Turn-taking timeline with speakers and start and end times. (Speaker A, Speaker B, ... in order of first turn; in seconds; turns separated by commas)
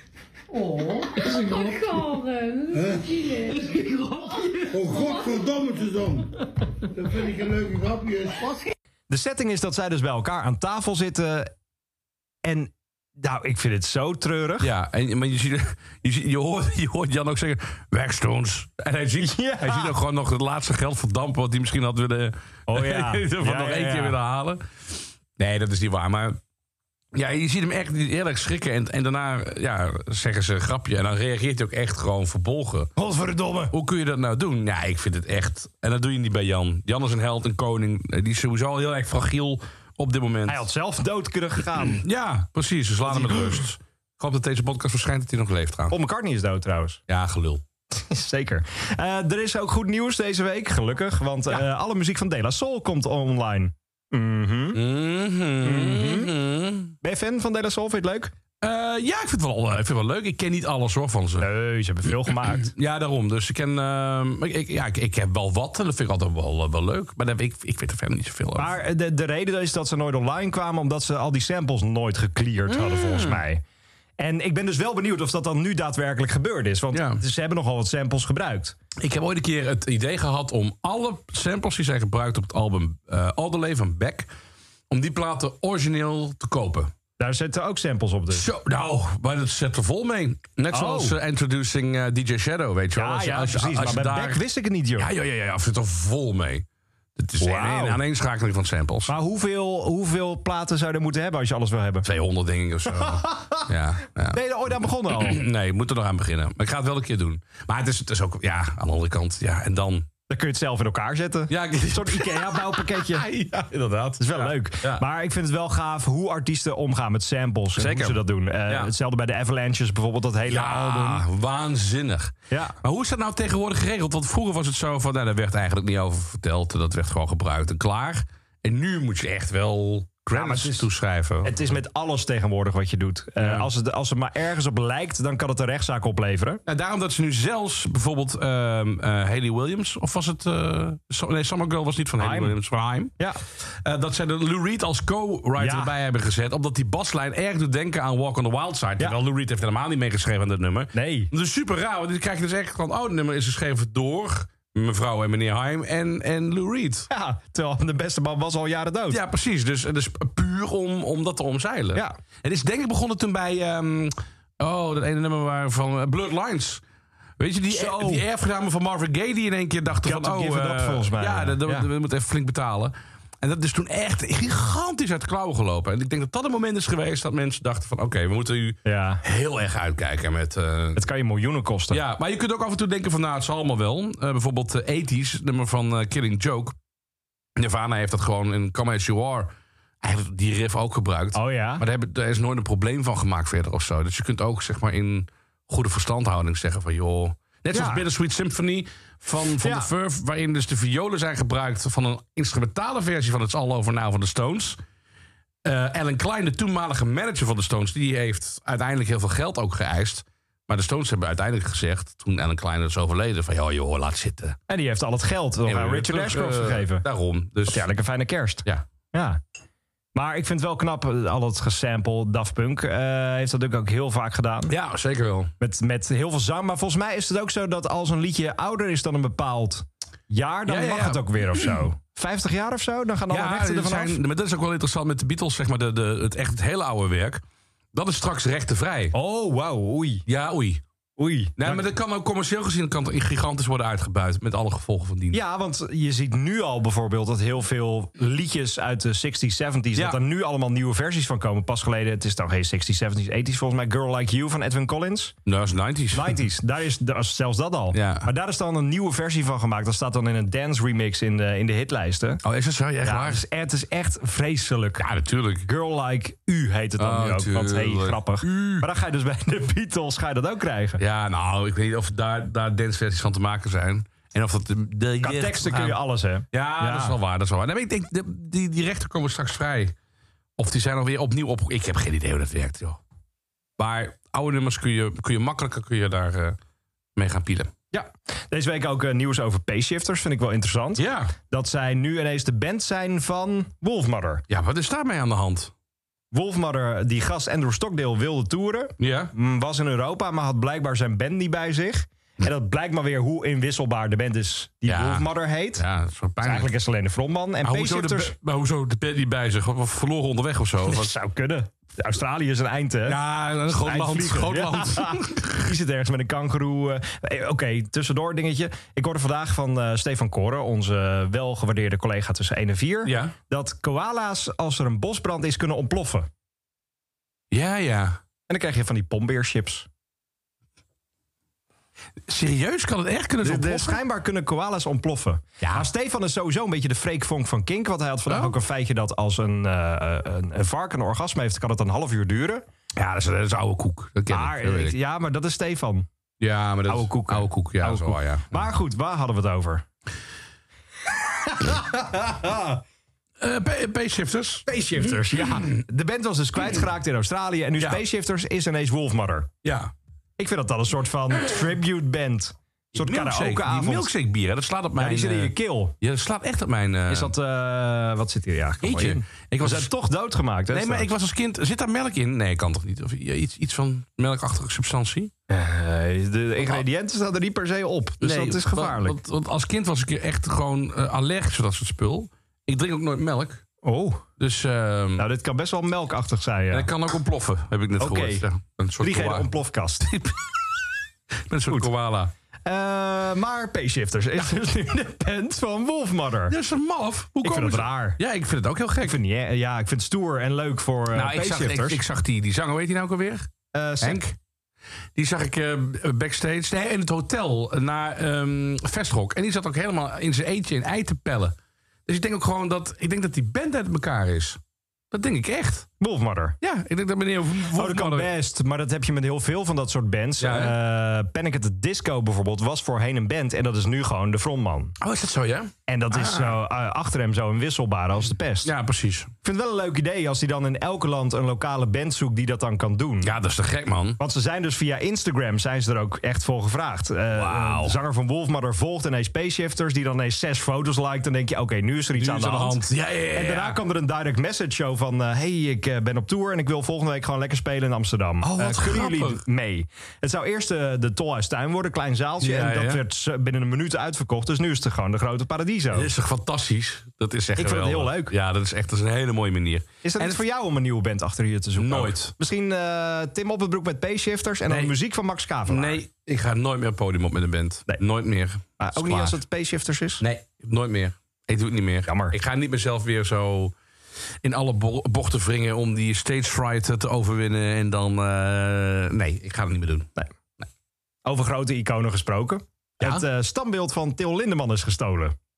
Speaker A: 0.5-5.5, Speaker B: 1.2-1.9, Speaker B: 2.7-3.3, Speaker B: 4.7-6.3, Speaker B: 6.9-8.5, Speaker A: 8.4-8.7, Speaker C: 9.1-11.5, Speaker C: 12.4-14.7, Speaker D: 14.6-24.6, Speaker C: 19.2-19.9, Speaker C: 22.7-24.2, Speaker D: 25.4-26.4, Speaker D: 27.1-32.9, Speaker C: 33.0-33.7, Speaker D: 33.7-40.7, Speaker C: 40.5-42.0, Speaker D: 41.8-46.0, Speaker C: 43.1-43.6, Speaker C: 45.9-47.0, Speaker D: 47.1-47.6, Speaker C: 47.9-54.8, Speaker D: 54.7-56.9, Speaker C: 55.6-56.3, Speaker C: 57.0-58.3, Speaker D: 58.6-61.5, Speaker C: 61.4-62.7, Speaker D: 62.5-68.7, Speaker C: 68.6-73.6, Speaker D: 72.7-73.4, Speaker C: 74.2-78.8, Speaker D: 76.9-77.2, Speaker D: 79.0-84.3, Speaker D: 84.9-86.9, Speaker C: 87.2-88.5, Speaker D: 88.3-94.4, Speaker C: 90.7-91.2, Speaker C: 92.9-95.1, Speaker D: 95.0-96.7, Speaker D: 97.2-99.1, Speaker C: 97.4-98.0, Speaker C: 99.1-102.1, Speaker D: 102.0-104.4, Speaker C: 102.9-103.7, Speaker C: 104.3-105.4, Speaker D: 105.1-110.1, Speaker C: 110.3-113.2, Speaker D: 111.5-115.0, Speaker C: 114.2-121.2, Speaker D: 117.7-118.9, Speaker D: 120.5-131.8, Speaker C: 122.5-122.8, Speaker C: 130.3-130.9, Speaker C: 131.4-136.6, Speaker D: 133.4-133.7, Speaker D: 136.7-143.1, Speaker C: 142.2-142.6, Speaker D: 143.8-157.1, Speaker C: 145.6-145.9, Speaker C: 150.9-151.3, Speaker C: 157.1-159.2, Speaker D: 159.1-166.8, Speaker D: 167.4-181.0, Speaker C: 167.7-168.2, Speaker C: 170.0-171.9, Speaker C: 178.8-179.2, Speaker C: 180.9-182.0, Speaker D: 181.9-186.8, Speaker D: 187.6-204.8, Speaker C: 191.3-191.8, Speaker C: 197.7-198.1, Speaker C: 199.6-199.9, Speaker D: 205.6-214.6, Speaker C: 214.7-217.0, Speaker D: 215.7-217.9, Speaker C: 217.7-219.4, Speaker C: 220.1-224.7, Speaker D: 224.7-225.5, Speaker C: 225.6-234.2, Speaker D: 230.7-231.8, Speaker D: 233.3-237.4, Speaker D: 237.9-239.1, Speaker C: 239.1-240.2, Speaker D: 240.2-240.8, Speaker C: 241.2-241.9, Speaker D: 241.6-245.4, Speaker C: 245.3-255.3, Speaker D: 249.9-250.2, Speaker D: 255.4-256.4, Speaker C: 256.1-262.4, Speaker D: 257.9-258.3, Speaker D: 262.4-263.4, Speaker C: 263.0-265.1, Speaker D: 265.0-265.7, Speaker C: 265.6-271.0, Speaker D: 267.0-268.9, Speaker D: 271.0-276.0, Speaker C: 275.2-277.2, Speaker D: 276.5-279.9, Speaker D: 280.6-283.0, Speaker D: 283.8-286.6, Speaker D: 287.1-287.7, Speaker C: 287.9-294.4, Speaker D: 291.0-291.3, Speaker D: 294.5-295.7, Speaker C: 296.3-305.8, Speaker D: 299.0-299.3, Speaker D: 304.9-306.7, Speaker C: 306.4-308.4, Speaker D: 307.6-311.1, Speaker C: 310.8-313.2, Speaker D: 313.1-315.7, Speaker C: 313.7-326.3, Speaker D: 323.0-323.4, Speaker D: 327.5-328.2, Speaker C: 328.5-329.9, Speaker D: 332.3-334.0, Speaker C: 333.4-342.6, Speaker D: 335.6-335.9, Speaker D: 338.3-338.6, Speaker D: 342.9-344.9, Speaker C: 344.3-346.1, Speaker D: 346.4-348.6, Speaker C: 346.9-349.9, Speaker C: 351.4-352.8, Speaker D: 353.4-355.8, Speaker C: 354.6-359.5, Speaker D: 359.6-359.9, Speaker C: 360.4-364.1, Speaker D: 362.9-367.3, Speaker C: 365.0-365.9, Speaker C: 367.1-371.1, Speaker D: 368.8-369.9, Speaker D: 370.7-375.3, Speaker C: 375.5-379.2, Speaker D: 378.2-383.6, Speaker C: 383.8-384.2, Speaker D: 384.4-385.3, Speaker C: 385.2-386.9, Speaker D: 386.7-389.5, Speaker C: 388.0-388.4, Speaker C: 389.0-390.1, Speaker D: 390.0-390.5, Speaker D: 391.5-392.3, Speaker C: 392.6-396.6, Speaker D: 396.5-399.2, Speaker C: 397.4-398.2, Speaker C: 399.0-402.0, Speaker D: 401.1-404.4, Speaker C: 403.7-404.2, Speaker D: 405.1-414.6, Speaker D: 415.1-415.9, Speaker C: 416.0-416.6, Speaker D: 416.6-418.3, Speaker C: 417.6-424.9, Speaker D: 420.4-420.8, Speaker D: 425.0-426.6, Speaker C: 425.9-428.7, Speaker D: 428.6-429.3, Speaker C: 429.4-433.3, Speaker D: 433.2-434.2, Speaker C: 434.2-456.1, Speaker D: 437.3-438.0, Speaker D: 442.1-443.8, Speaker D: 448.4-449.4, Speaker D: 452.4-453.0, Speaker D: 455.9-460.4, Speaker C: 457.6-458.3, Speaker C: 460.0-466.0, Speaker D: 461.8-462.3, Speaker D: 464.7-464.9, Speaker D: 465.7-469.4, Speaker C: 468.8-470.2, Speaker D: 470.2-473.7, Speaker C: 472.1-472.4, Speaker D: 474.4-480.7, Speaker C: 481.2-485.4